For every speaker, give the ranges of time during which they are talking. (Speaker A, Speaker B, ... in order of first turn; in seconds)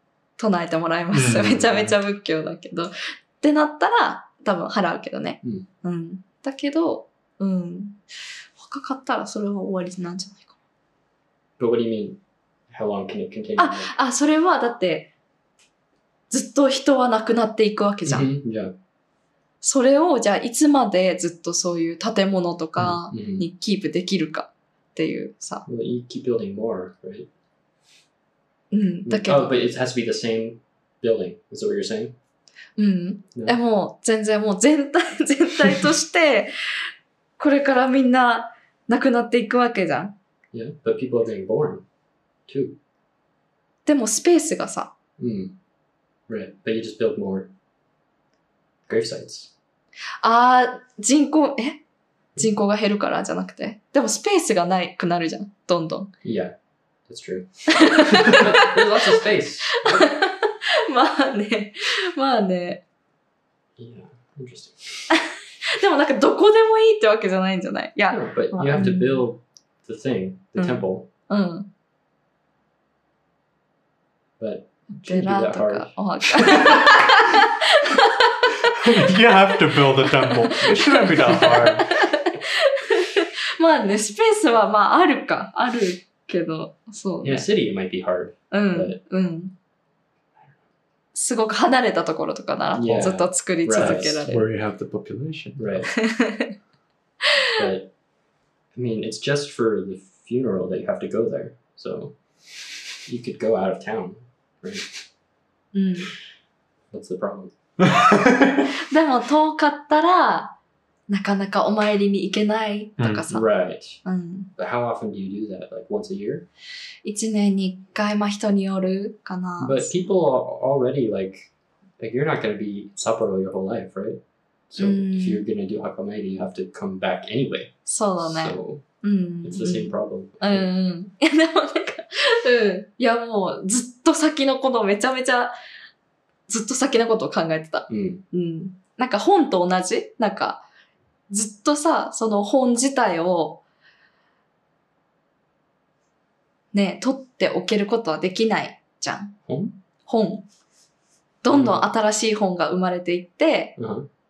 Speaker A: 0.4-8.0, 8.6-10.5, 13.6-15.1, 16.3-18.3, 19.6-25.7, 28.7-29.6, 32.8-36.5, 37.4-40.1, 43.9-45.0, 50.2-51.8, 52.4-56.1, 57.7-58.9, 59.7-62.8, 65.1-69.3, 70.6-71.7, 74.9-79.4, 80.0-87.5, 88.5-89.5, 91.1-94.5, 96.0-96.5, 105.7-106.1, 108.9-110.5, 111.1-113.5, 114.0-114.5, 117.0-119.9, 124.8-125.4, 127.9-135.6, 136.5-140.7, 141.3-143.6, 146.7-149.4, 150.1-150.5, 151.4-153.8
Speaker B: 1.1-2.0, 78.8-81.9, 93.8-95.9, 107.8-108.6, 113.0-113.3
Speaker C: 11.6-12.2, 12.7-13.9, 18.1-18.8, 22.8-23.5, 25.7-27.3, 29.1-32.1, 40.5-41.8, 42.5-42.8, 45.2-45.5, 46.3-47.5, 48.9-49.5, 56.2-56.5, 57.1-60.1, 63.8-65.1, 68.1-71.1, 74.4-77.2, 87.2-89.0, 92.8-94.2, 95.6-96.0, 97.6-97.9, 98.8-102.2, 103.0-105.0, 106.9-107.5, 113.3-114.0, 114.6-116.5, 119.6-128.8, 129.4-130.7, 137.9-138.2, 149.5-149.8, 151.5-151.9, 153.8-154.1